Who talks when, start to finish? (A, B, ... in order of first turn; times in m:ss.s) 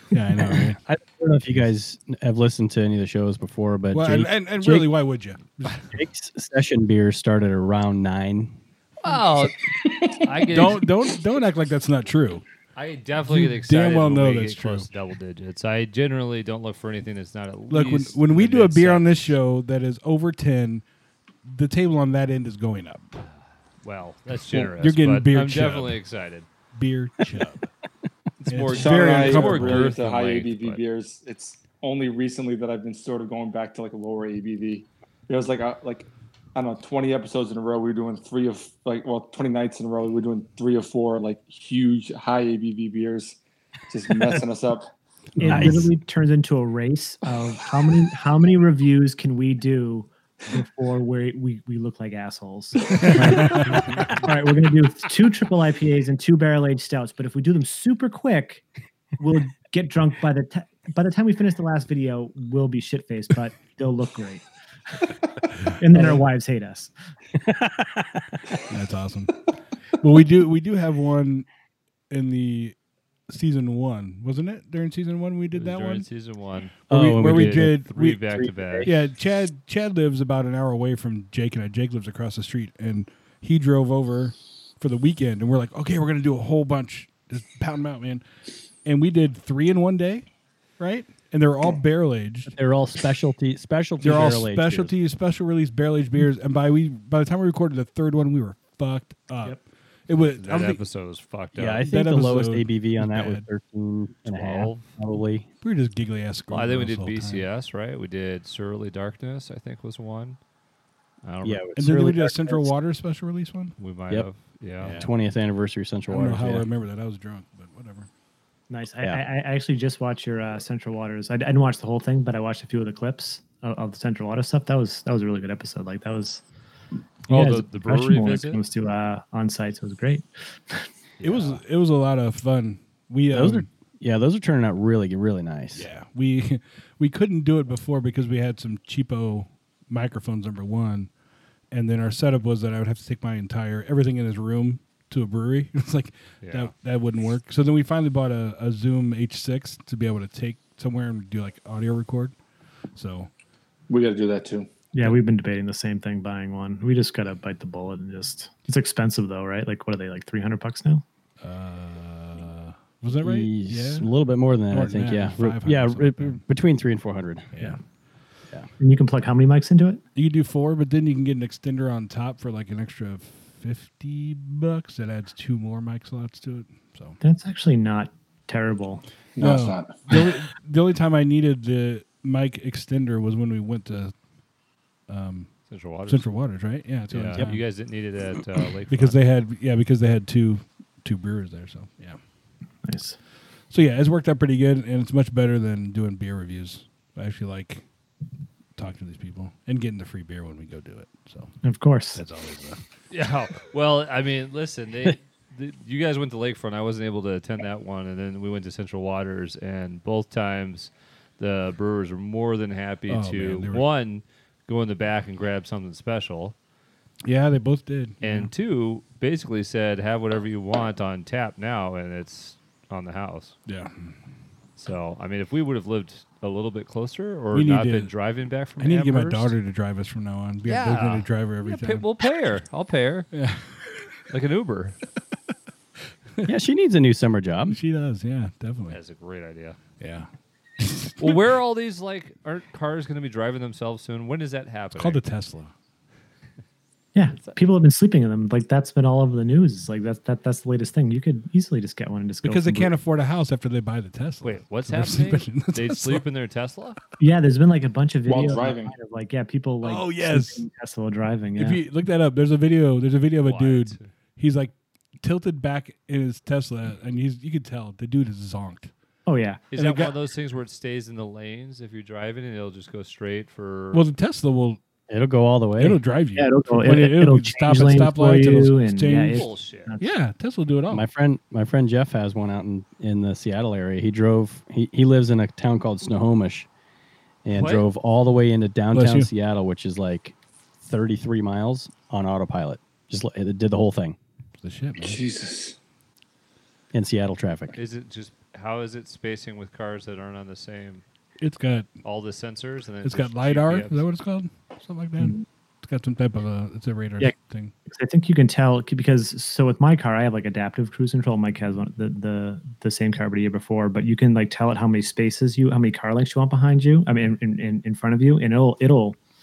0:00.1-0:00.8 A
0:00.4-0:04.9 B
0:03.9-0:05.8 A
0:05.9-0:08.6 B
0:09.0-0:09.6 C
0:09.7-0:10.6 D
0:10.1-0:10.8 C
0:10.5-0:12.4 A
0:12.7-0:19.4 C
0:13.2-0:14.9 A
0:17.7-0:20.8 A
0:21.4-0:23.1 A
0:23.8-0:26.4 C
0:24.5-0:26.0 A
0:26.7-0:27.7 A
0:28.4-0:30.8 C
0:28.5-0:30.0 A
0:28.7-0:43.4 D
0:43.9-0:44.9 D
0:45.4-0:58.6 E
0:45.4-0:45.7 A
0:45.4-0:45.9 B
0:52.9-0:53.9 A
0:59.2-1:04.4 E
1:05.7-1:06.9 E
1:05.9-1:06.2 B
1:07.4-1:08.4 B
1:08.7-1:09.4 A
1:10.0-1:11.5 A
1:12.1-1:12.8 A
1:13.3-1:16.1 A
1:15.5-1:18.9 C
1:16.9-1:18.2 A
1:16.9-1:18.9 B
1:18.8-1:28.2 A
1:28.8-1:30.3 A
1:30.8-1:32.5 A
1:32.5-1:34.9 B
1:34.0-1:40.8 A
1:40.4-1:41.9 C
1:41.5-1:45.5 B
1:41.8-1:43.5 A
1:44.3-1:44.8 C
1:45.6-1:47.4 A
1:46.5-1:50.4 C
1:51.2-1:51.6 C
1:51.4-1:52.7 B
1:51.8-1:53.7 A
1:53.8-1:55.0 C
1:54.8-1:55.1 A
1:54.9-1:56.7 B
1:56.1-1:58.1 A
1:58.7-2:06.4 E
2:07.3-2:10.8 E
2:07.3-2:08.6 C
2:11.2-2:11.5 C
2:11.2-2:13.7 A
2:13.3-2:15.9 B
2:15.7-2:21.1 A
2:21.7-2:32.4 A
2:26.4-2:26.7 C
2:32.9-2:33.3 A
2:33.9-2:34.7 D
2:34.9-2:41.0 E
2:41.4-2:44.1 A
2:43.2-2:47.7 B
2:44.7-2:46.4 A
2:47.5-2:47.8 A
2:48.8-2:50.0 E
2:50.1-2:57.2 A
2:57.2-2:59.0 E
2:59.4-3:00.2 D
2:59.4-3:04.1 A
3:05.1-3:05.5 A
3:05.7-3:06.3 C
3:06.1-3:07.6 A
3:07.1-3:09.2 C
3:08.9-3:12.2 A
3:12.8-3:13.2 E
3:13.7-3:17.8 A
3:18.8-3:21.5 A
3:21.6-3:22.2 E
3:22.1-3:22.8 A
3:23.1-3:36.6 C
3:33.1-3:33.8 A
3:37.2-3:38.5 A
3:38.2-3:43.6 C
3:43.7-3:44.1 A
3:44.8-3:49.5 C
3:47.5-3:48.1 A
3:48.8-3:52.1 A
3:50.6-3:53.3 C
3:53.3-3:53.7 A
3:54.3-3:55.0 C
3:56.4-3:57.8 B
3:57.7-3:59.0 A
3:58.9-3:59.8 C
4:00.0-4:01.4 A
4:01.2-4:05.2 C
4:05.0-4:05.7 A
4:07.1-4:13.0 E
4:12.4-4:16.2 A
4:14.4-4:17.0 C
4:17.2-4:21.8 E
4:18.2-4:18.9 D
4:19.8-4:20.6 A
4:21.6-4:28.9 A
4:23.4-4:24.1 C
4:29.2-4:29.6 E
4:29.7-4:34.0 C
4:29.7-4:30.1 A
4:33.9-4:34.8 A
4:35.1-4:36.0 B
4:35.8-4:39.4 A
4:36.4-4:40.1 E
4:39.3-4:39.9 C
4:40.0-4:41.0 A
4:40.9-4:46.7 B
4:47.4-4:54.2 B
4:47.5-4:47.8 C
4:48.9-4:49.3 A
4:54.6-4:55.2 A
4:55.0-4:55.8 D
4:56.9-4:57.8 B
4:57.8-5:01.0 C
5:01.4-5:01.9 A
5:02.0-5:04.0 C
5:03.0-5:07.7 A
5:07.9-5:19.2 E